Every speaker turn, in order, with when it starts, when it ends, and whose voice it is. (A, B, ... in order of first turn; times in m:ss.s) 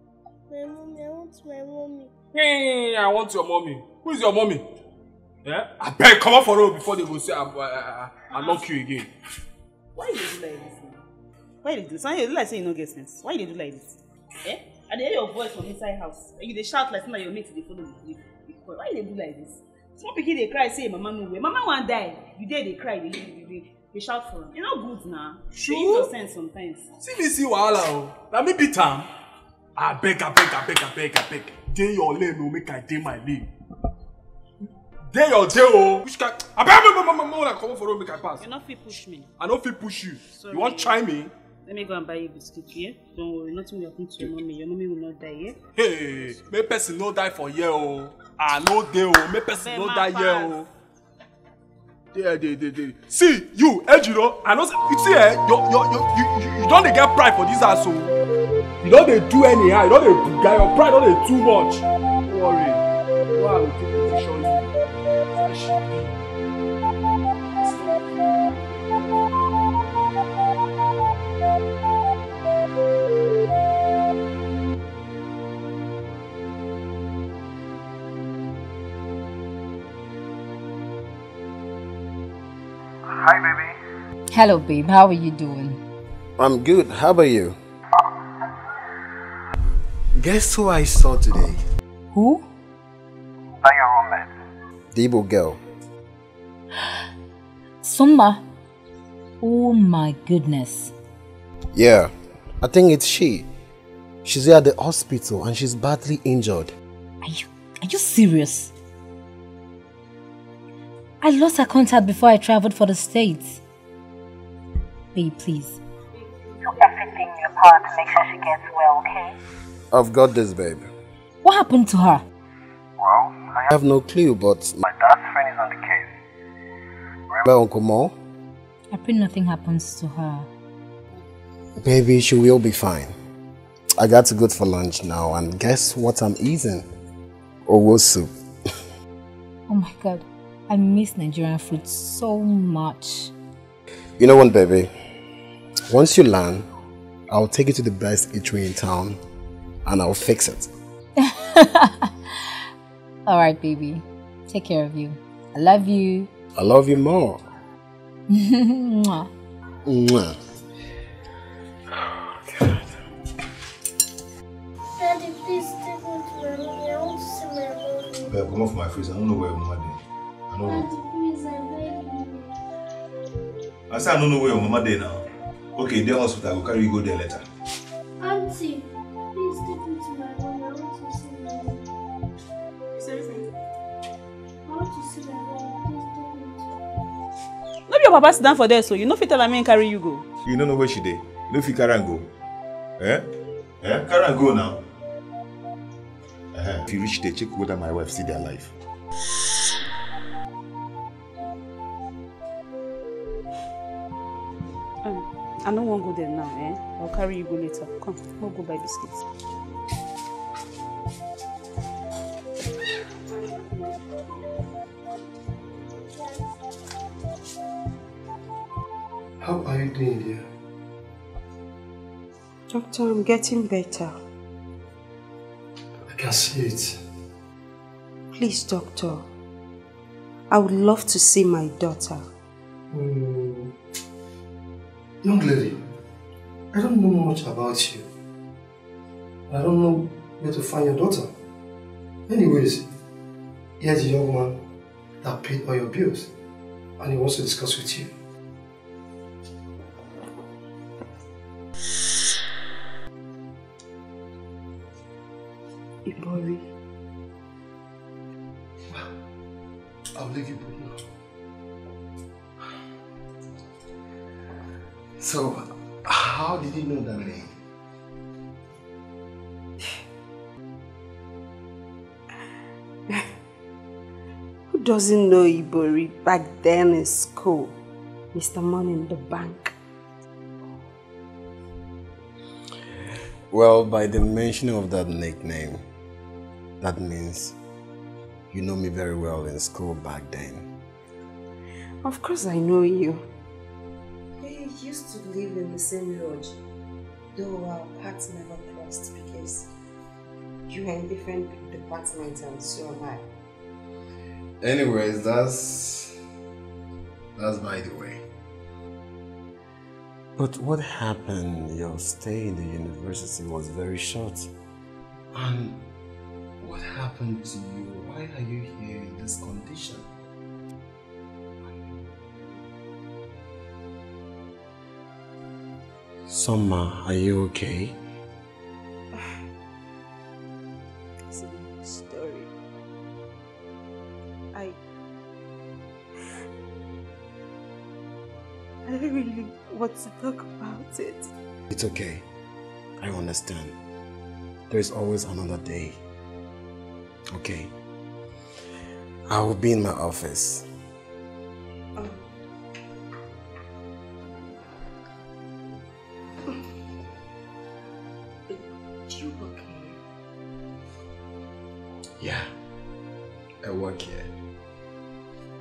0:00.5-0:02.2 A
0:02.3-0:04.6 B
0:05.4-0:09.1 B
0:10.0-0:11.0 C
0:11.6-0:26.9 C
0:25.5-0:26.1 B
0:27.0-0:29.1 B
0:29.8-0:33.5 B
0:35.1-0:38.4 B
0:38.4-0:39.3 C
0:39.4-0:41.3 B
0:40.3-0:40.8 C
0:41.7-0:45.6 C
0:45.8-0:50.7 B
0:49.6-0:50.6 C
0:52.1-0:58.2 B
0:58.8-1:04.7 B
1:05.3-1:06.1 B
1:07.6-1:08.2 B
1:24.3-1:25.8 D
1:26.4-1:27.6 E
1:30.2-1:31.6 E
1:32.1-1:32.4 D
1:34.9-1:35.6 E
1:37.8-1:38.4 D
1:39.4-1:40.9 D
1:41.7-1:43.5 E
1:44.2-1:46.7 E
1:47.2-1:48.7 D
1:51.2-1:53.6 D
1:55.2-1:55.8 D
1:56.6-1:59.3 F
1:59.9-2:00.9 E
2:01.4-2:02.2 D
2:03.6-2:04.8 E
2:07.4-2:08.2 E
2:08.9-2:10.5 D
2:11.8-2:13.2 E
2:14.0-2:16.9 E
2:17.7-2:18.8 E
2:19.7-2:23.3 D
2:24.2-2:24.9 E
2:25.9-2:26.7 E
2:27.3-2:29.2 E
2:29.8-2:30.7 E
2:31.2-2:32.6 D
2:33.3-2:36.3 D
2:36.6-2:37.4 E
2:38.3-2:39.3 D
2:39.8-2:40.4 E
2:41.9-2:43.0 E
2:45.0-2:48.4 A
2:48.3-2:50.9 G
2:50.6-2:52.6 A
2:53.9-2:55.2 G
2:55.8-2:57.4 G
2:58.2-3:01.8 A
3:03.0-3:03.4 C
3:04.7-3:06.7 A
3:07.9-3:10.2 C
3:10.4-3:12.3 G
3:13.0-3:13.2 G
3:13.8-3:14.8 G
3:16.5-3:18.7 G
3:25.0-3:29.2 C
3:39.4-3:40.4 H
3:42.7-3:44.1 I
3:46.1-3:47.0 H
3:48.3-3:49.3 I
3:50.5-3:52.2 I
3:52.9-3:53.7 H
3:55.2-3:55.8 H
3:56.7-3:58.1 H
3:59.5-4:01.3 H
4:02.3-4:02.8 H
4:03.8-4:04.6 H
4:05.2-4:06.3 H
4:07.0-4:08.1 H
4:16.0-4:16.6 I
4:20.1-4:21.0 H
4:25.2-4:27.5 E
4:34.7-4:37.8 I
4:38.3-4:39.7 I
4:43.5-4:45.8 E
4:46.8-4:47.6 E
4:48.5-4:50.7 E
4:52.0-4:53.3 I
4:54.4-4:56.6 I
4:57.4-4:59.7 I
5:00.7-5:03.2 I
5:04.6-5:06.1 E
5:07.4-5:08.2 E
5:10.4-5:14.5 E
5:15.3-5:15.8 E
5:16.6-5:20.1 E
5:26.3-5:28.0 E
5:31.3-5:32.5 I
5:38.9-5:41.3 I
5:41.7-5:42.2 E
5:43.0-5:43.8 E
5:44.7-5:46.0 E
5:47.3-5:47.7 E
5:49.3-5:50.7 E
5:52.0-5:52.3 I
5:58.5-6:00.0 I
6:02.2-6:02.5 E
6:03.6-6:04.3 E